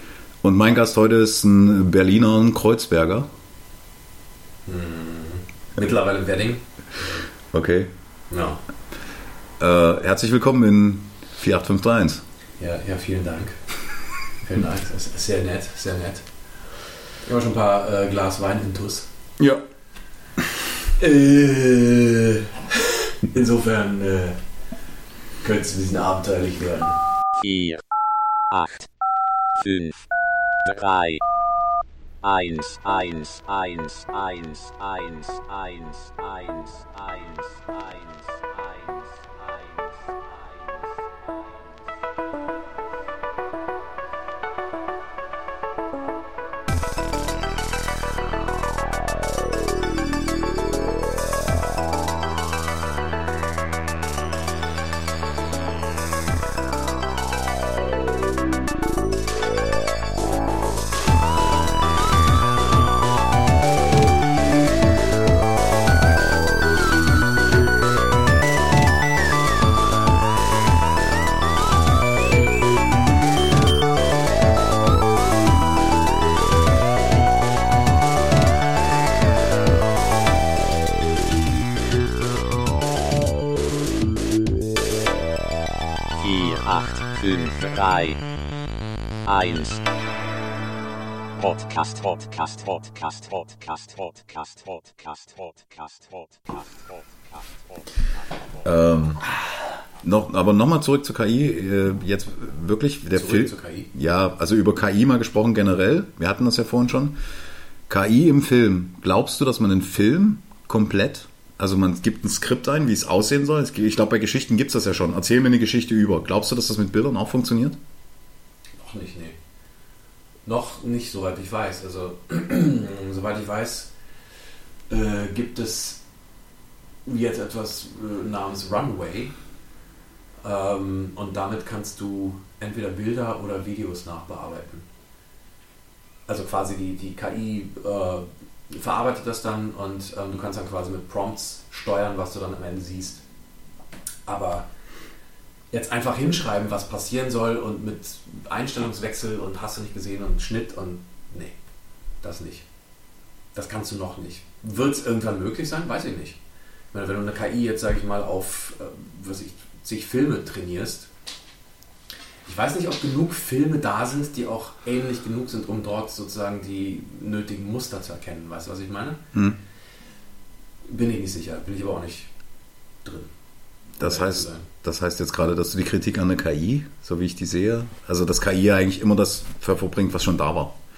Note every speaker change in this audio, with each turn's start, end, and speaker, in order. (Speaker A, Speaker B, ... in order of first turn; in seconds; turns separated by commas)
Speaker A: 0.4-3.3, Speaker B: 4.7-6.7, Speaker A: 7.5-7.9, Speaker B: 8.3-8.6, Speaker A: 9.6-12.2, Speaker B: 12.6-13.7, Speaker B: 14.4-16.3, Speaker B: 17.2-19.1, Speaker A: 19.4-19.6, Speaker B: 21.0-24.4, Speaker B: 25.4-27.0, Speaker C: 27.4-27.8, Speaker C: 28.5-28.8, Speaker C: 29.6-29.9, Speaker C: 30.6-31.2, Speaker C: 32.2-40.4, Speaker C: 86.2-88.2, Speaker C: 89.3-89.8, Speaker C: 91.4-96.6, Speaker A: 98.6-99.2, Speaker A: 100.0-107.2, Speaker B: 103.1-103.9, Speaker A: 107.9-117.8, Speaker B: 118.8-119.4, Speaker B: 120.5-123.9, Speaker B: 124.9-126.0, Speaker B: 127.0-129.4, Speaker B: 130.4-134.9, Speaker B: 136.3-143.2, Speaker B: 144.3-144.7, Speaker B: 145.7-151.6, Speaker B: 152.2-152.7, Speaker B: 153.6-156.4, Speaker B: 156.9-161.1, Speaker B: 162.5-169.2, Speaker A: 169.3-169.6, Speaker B: 170.8-172.3, Speaker B: 173.1-173.3, Speaker A: 174.0-180.8, Speaker B: 174.0-174.7